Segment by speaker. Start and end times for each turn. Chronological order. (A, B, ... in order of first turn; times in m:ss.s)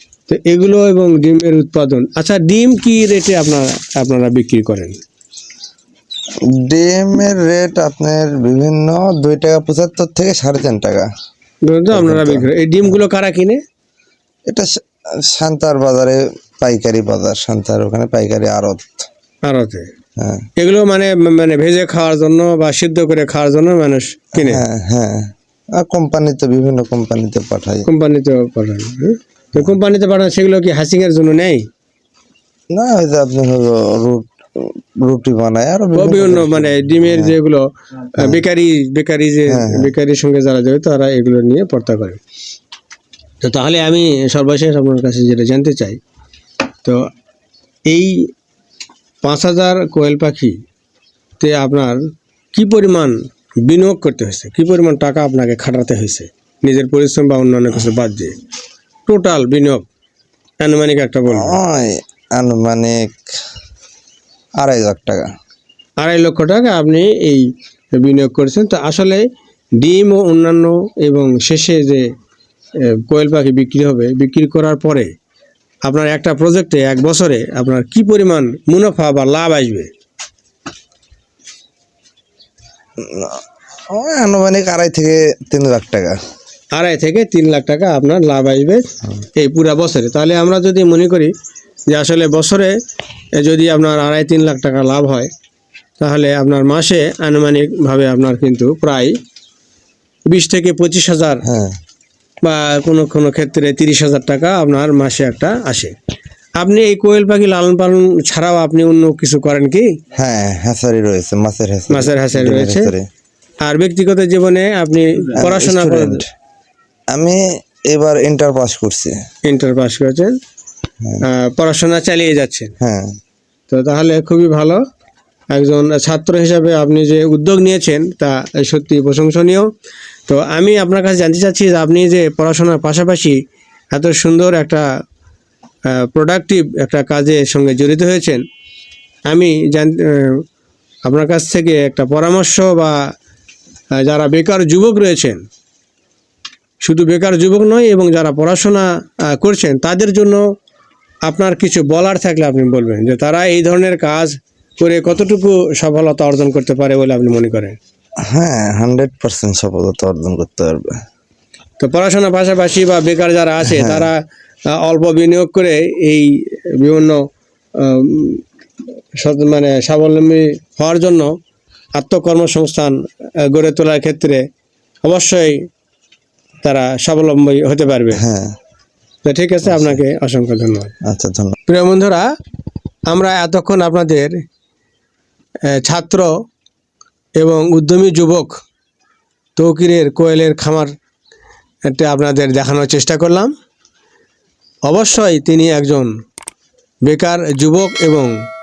0:00.3-0:05.0 A
0:06.4-0:11.1 B
0:11.6-0:13.6 A
0:11.9-0:13.0 B
0:14.5-0:19.1 B
0:19.4-0:19.9 A
0:20.2-0:20.5 B
0:20.6-0:24.6 A
0:24.4-0:27.9 B
0:27.8-0:31.6 A
0:32.7-0:37.4 B
0:36.0-0:42.2 A
0:38.2-0:38.4 B
0:39.5-0:39.9 B
0:43.4-0:46.0 A
0:47.9-0:48.3 A
0:49.2-0:50.6 A
0:51.4-0:52.0 A
0:52.5-0:58.4 A
0:59.1-0:59.8 A
1:00.6-1:01.6 A
1:01.3-1:03.3 B
1:04.6-1:05.3 B
1:06.0-1:09.2 A
1:09.8-1:12.1 A
1:12.8-1:15.1 A
1:15.8-1:19.9 A
1:23.0-1:26.2 B
1:26.7-1:28.8 A
1:29.4-1:31.3 A
1:31.9-1:32.7 A
1:33.4-1:35.3 A
1:36.0-1:39.2 A
1:40.3-1:41.4 A
1:41.4-1:41.8 B
1:42.4-1:45.9 A
1:46.6-1:49.9 A
1:50.1-1:53.1 B
1:51.9-1:52.9 A
1:53.6-1:56.2 A
1:55.4-1:56.3 B
1:57.1-1:59.2 B
1:59.4-2:00.4 A
2:01.2-2:02.7 A
2:02.8-2:03.2 B
2:03.7-2:04.8 A
2:05.5-2:09.7 A
2:10.3-2:13.4 A
2:13.9-2:14.9 A
2:15.9-2:18.4 A
2:19.3-2:20.4 A
2:21.0-2:23.0 A
2:24.0-2:25.4 A
2:26.8-2:30.4 A
2:31.2-2:37.8 A
2:38.2-2:41.0 B
2:41.8-2:48.4 A
2:43.6-2:44.1 B
2:49.2-2:51.3 A
2:52.0-2:54.4 A
2:55.0-2:55.6 A
2:56.6-2:58.2 A
2:58.1-2:58.6 B
2:59.2-3:01.0 A
2:59.6-3:00.0 B
3:01.0-3:01.6 B
3:01.7-3:02.3 A
3:03.1-3:04.3 A
3:05.6-3:06.3 A
3:07.4-3:08.6 A
3:09.6-3:10.9 A
3:11.8-3:13.5 A
3:14.9-3:16.1 A
3:17.0-3:18.3 A